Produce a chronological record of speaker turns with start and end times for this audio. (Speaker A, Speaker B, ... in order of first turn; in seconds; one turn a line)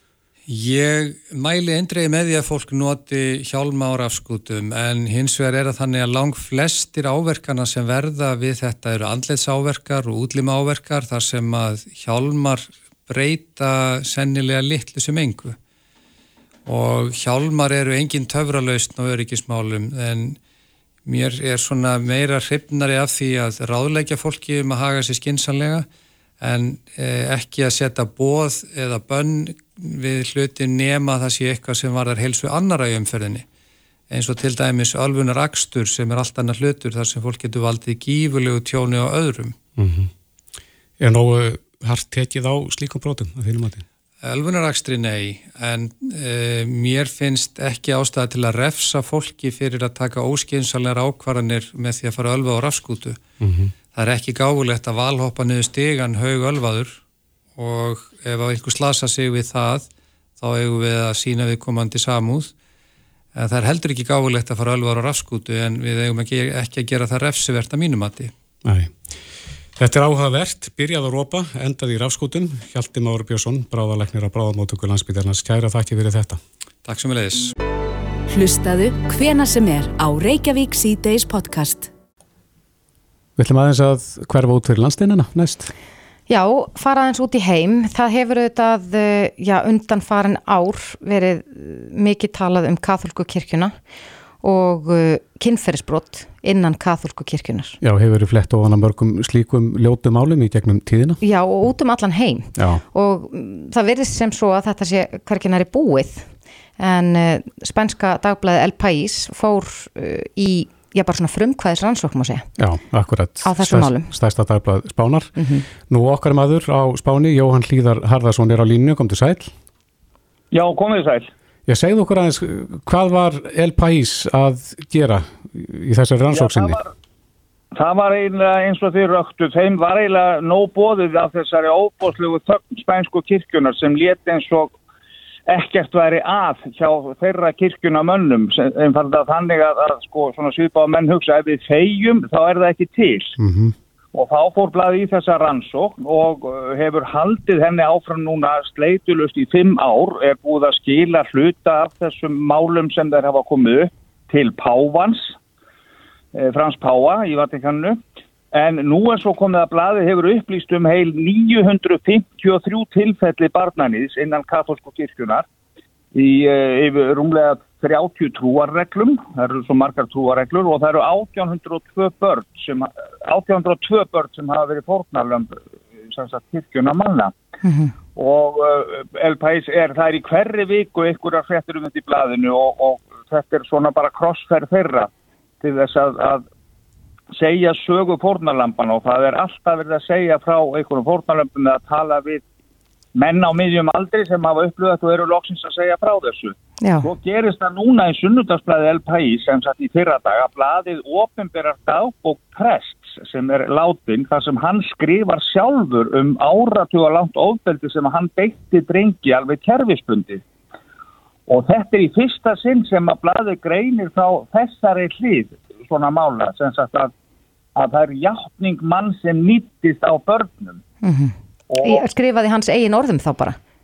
Speaker A: 0.5-15.5
Speaker A: 16.6-20.4
Speaker A: 21.1-25.9
Speaker A: 26.4-33.4
Speaker A: 34.1-39.5
Speaker B: 39.8-40.1
Speaker B: 41.0-43.8
Speaker A: 44.2-53.2
Speaker B: 53.4-53.7
Speaker A: 53.9-57.0
Speaker A: 57.6-59.9
Speaker A: 60.4-62.5
Speaker A: 63.3-68.3
Speaker B: 68.6-69.1
Speaker B: 69.8-76.4
Speaker A: 76.8-77.5
Speaker C: 78.3-81.9
Speaker B: 83.4-85.7
Speaker D: 86.3-93.7
Speaker D: 94.4-97.8
Speaker B: 97.8-101.2
Speaker D: 101.2-112.5
Speaker B: 102.6-102.8
Speaker B: 112.6-119.5
Speaker D: 113.4-114.1
Speaker D: 115.4-115.7
Speaker E: 120.5-121.3
Speaker B: 121.7-126.8
Speaker E: 126.3-126.9
Speaker E: 127.7-134.7
Speaker E: 135.5-143.3
Speaker B: 143.4-143.7
Speaker E: 144.1-155.4
Speaker E: 156.3-158.0
Speaker E: 158.5-165.4
Speaker E: 166.1-177.3
Speaker D: 177.6-177.9
Speaker E: 178.2-185.1
Speaker E: 185.6-186.4
Speaker E: 187.3-192.4
Speaker E: 193.1-210.4
Speaker D: 196.8-197.1
Speaker E: 211.5-217.1
Speaker E: 217.7-220.8
Speaker D: 221.0-223.6
Speaker E: 221.7-222.0